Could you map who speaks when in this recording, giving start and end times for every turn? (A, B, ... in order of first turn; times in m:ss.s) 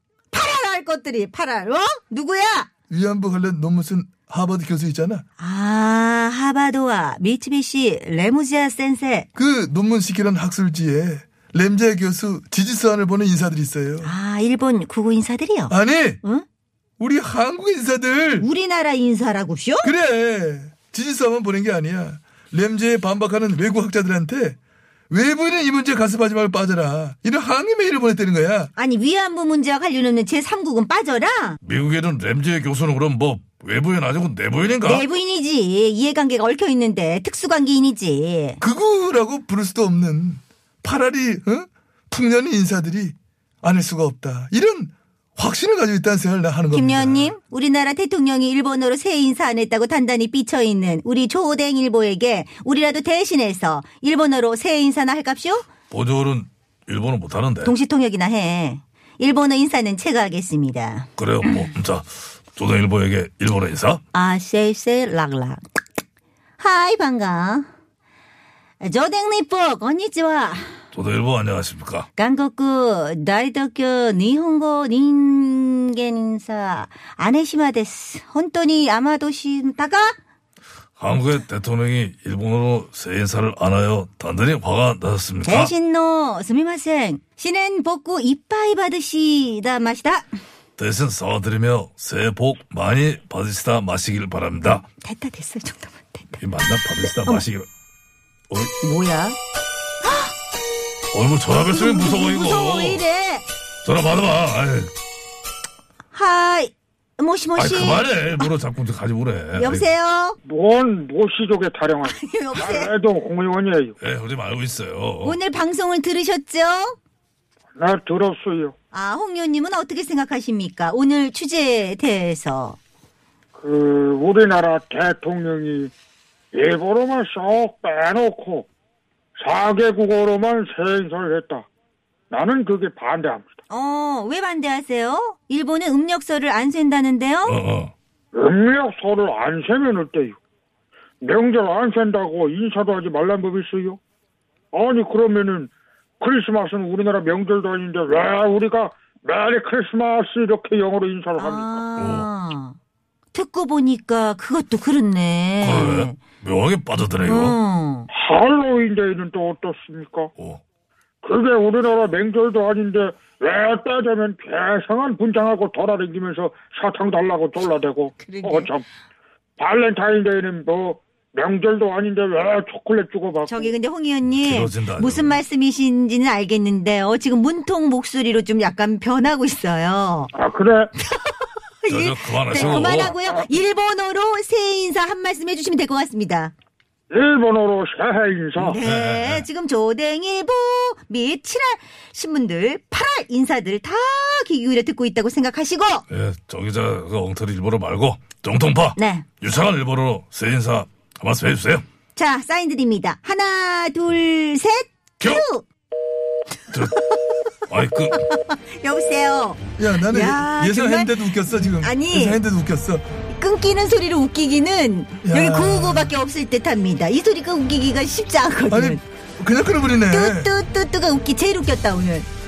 0:00.3-0:02.7 A
0:02.9-0:05.2 B
0:05.4-0:09.3 A
0:09.3-0:14.1 B
0:14.0-0:16.4 A
0:15.7-0:16.2 B
0:17.0-0:18.5 B
0:18.4-0:19.9 A
0:19.8-0:24.6 B
0:25.1-0:28.7 B
0:28.8-0:31.6 A
0:31.6-0:35.0 C
0:34.8-0:38.6 A
0:38.6-0:47.3 B
0:46.7-0:55.7 A
0:55.9-0:57.7 C
0:57.6-1:01.5 A
1:01.2-1:04.0 C
1:04.1-1:05.6 A
1:06.6-1:07.7 A
1:08.8-1:10.8 A
1:10.9-1:12.1 C
1:12.2-1:20.2 A
1:21.0-1:25.7 C
1:25.4-1:30.3 A
1:30.8-1:34.8 C
1:35.0-1:36.4 A
1:36.4-1:37.7 C
1:38.8-1:39.4 A
1:40.0-1:40.3 A
1:41.1-1:43.0 C
1:41.5-1:43.4 A
1:43.8-1:44.9 C
1:46.1-1:48.5 A
1:47.6-1:49.9 C
1:49.6-1:50.4 A
1:50.4-1:54.0 D
1:52.0-1:52.9 A
1:54.0-1:55.4 C
1:55.2-1:57.0 A
1:57.8-1:58.7 D
1:58.9-2:02.8 A
2:03.6-2:05.9 D
2:06.5-2:08.7 D
2:09.4-2:11.7 D
2:12.3-2:13.5 D
2:13.7-2:17.6 A
2:17.4-2:17.9 C
2:18.3-2:20.4 D
2:21.2-2:24.0 D
2:24.7-2:25.7 D
2:26.2-2:31.8 D
2:31.4-2:32.8 A
2:32.0-2:32.3 C
2:33.3-2:36.2 A
2:35.6-2:37.6 C
2:37.2-2:38.1 A
2:38.1-2:40.3 D
2:41.2-2:48.8 D
2:48.2-2:48.7 A
2:49.6-2:53.7 D
2:53.4-3:00.3 A
2:54.2-2:55.4 C
3:00.3-3:00.9 D
3:01.1-3:06.5 A
3:01.9-3:03.1 C
3:07.1-3:08.8 D
3:08.6-3:09.4 C
3:08.6-3:16.0 A
3:16.1-3:21.8 C
3:19.0-3:19.2 A
3:22.1-3:25.6 A
3:26.7-3:27.0 C
3:26.9-3:27.3 A
3:27.7-3:28.2 C
3:28.1-3:32.4 A
3:29.8-3:33.0 B
3:33.3-3:39.0 A
3:35.2-3:36.1 B
3:38.7-3:40.5 B
3:40.1-3:42.3 A